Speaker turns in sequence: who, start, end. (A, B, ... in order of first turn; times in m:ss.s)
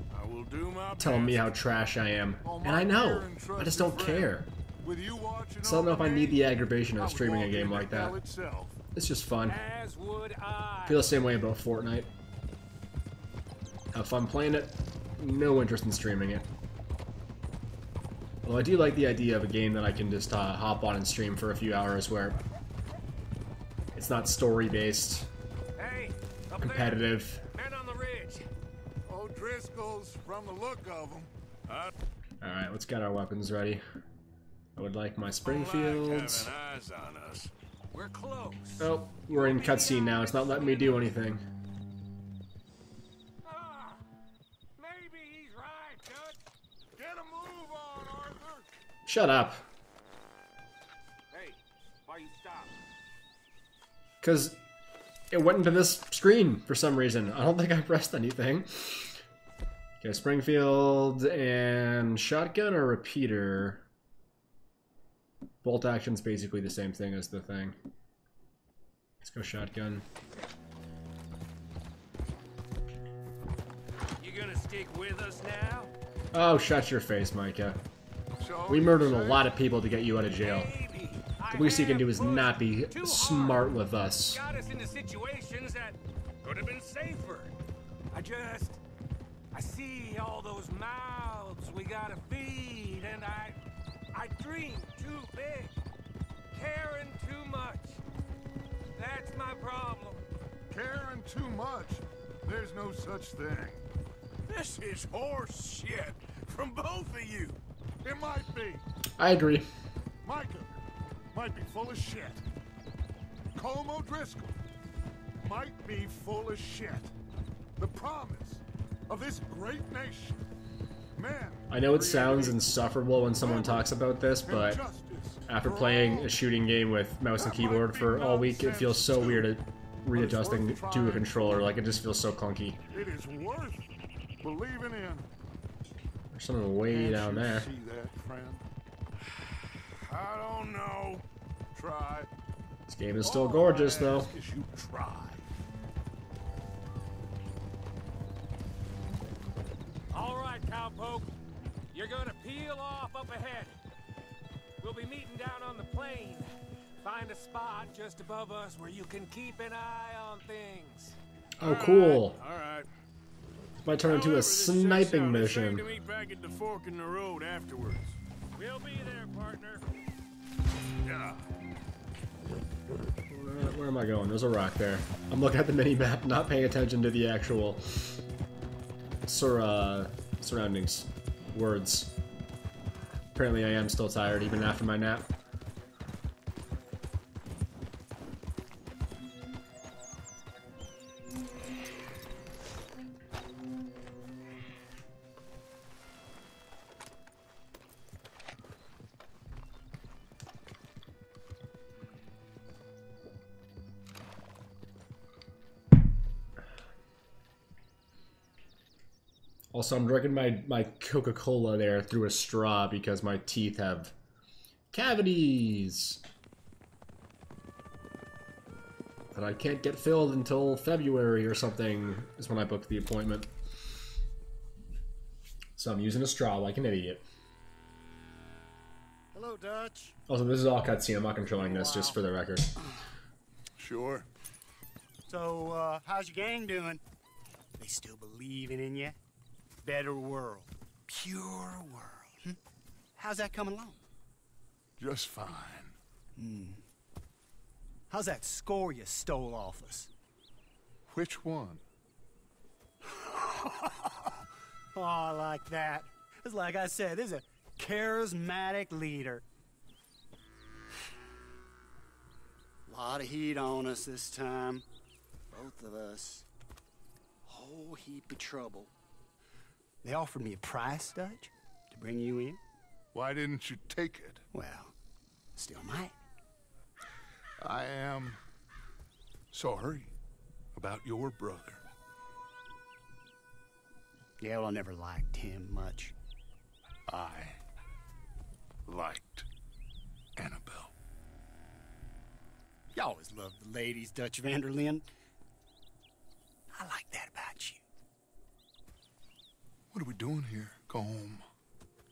0:00.1-0:01.5 A
0:01.0-0:04.5 B
0:02.4-0:08.8 C
0:05.6-0:08.2 B
0:09.0-0:09.6 B
0:09.5-0:11.1 D
0:10.9-0:12.1 B
0:13.9-0:16.5 B
0:18.4-0:22.4 B
0:23.9-0:25.3 B
0:25.8-0:28.5 D
0:26.6-0:27.4 B
0:29.1-0:31.3 C
0:32.4-0:33.8 B
0:34.8-0:36.5 B
0:35.5-0:37.5 A
0:37.9-0:41.1 D
0:38.8-0:41.4 B
0:43.4-0:44.0 D
0:44.8-0:46.4 D
0:47.0-0:48.7 C
0:49.1-0:49.6 B
0:51.3-0:52.7 D
0:54.2-0:54.6 B
0:55.3-0:59.2 B
1:00.0-1:03.8 B
1:05.6-1:07.8 B
1:09.2-1:10.0 B
1:14.2-1:15.9 D
1:16.3-1:17.8 B
1:18.4-1:19.5 C
1:18.7-1:20.7 B
1:20.4-1:23.7 D
1:21.5-1:24.4 B
1:24.3-1:27.5 D
1:28.1-1:28.8 D
1:29.5-1:33.6 D
1:34.1-1:35.7 D
1:36.5-1:38.0 D
1:39.0-1:40.2 D
1:40.7-1:43.8 C
1:44.5-1:47.6 A
1:48.0-1:48.8 C
1:49.2-1:49.7 B
1:50.2-1:50.8 C
1:51.3-1:52.4 C
1:53.6-1:54.6 C
1:55.4-1:57.1 C
1:57.8-2:00.4 C
2:01.2-2:02.7 C
2:01.7-2:04.8 B
2:03.4-2:03.9 C
2:04.4-2:06.3 C
2:05.5-2:12.8 B
2:07.4-2:09.6 C
2:10.1-2:11.6 C
2:12.9-2:13.9 C
2:14.4-2:15.3 C
2:16.3-2:17.7 B
2:16.9-2:18.6 C
2:20.0-2:21.2 A
2:21.8-2:22.3 C
2:22.9-2:24.3 B
2:23.2-2:25.5 C
2:30.1-2:31.3 D
2:31.9-2:33.8 D
2:34.8-2:36.5 D
2:37.0-2:41.2 D
2:41.6-2:42.9 A
2:41.6-2:42.4 B
2:43.8-2:45.9 B
2:44.0-2:48.2 A
2:48.5-2:49.8 D
2:51.0-2:51.4 A
2:53.3-2:58.2 B
2:59.3-3:02.1 B
3:03.4-3:05.3 B
3:29.7-3:34.1 B
3:34.9-3:36.2 B
3:39.3-3:43.5 B
3:45.8-3:47.2 B
3:49.3-3:50.2 E
3:50.3-3:52.7 B
3:51.6-3:52.2 E
3:53.8-3:54.3 C
3:55.3-3:57.0 E
3:57.8-3:59.2 E
3:59.8-4:02.6 E
4:03.2-4:04.0 E
4:05.0-4:06.0 C
4:06.4-4:06.8 E
4:08.1-4:10.1 E
4:11.1-4:11.8 C
4:13.2-4:14.2 E
4:14.9-4:19.4 E
4:22.9-4:24.8 E
4:25.5-4:26.5 E
4:27.5-4:28.9 E
4:30.0-4:32.6 E
4:33.1-4:34.4 C
4:34.5-4:34.9 E
4:35.6-4:36.1 E
4:37.6-4:38.4 C
4:39.5-4:40.1 C
4:40.8-4:41.8 C
4:44.4-4:46.1 E
4:47.1-4:47.6 C
4:48.9-4:49.5 C
4:50.4-4:50.9 C
4:52.9-4:55.1 E
4:56.7-4:57.8 E
4:59.9-5:01.5 C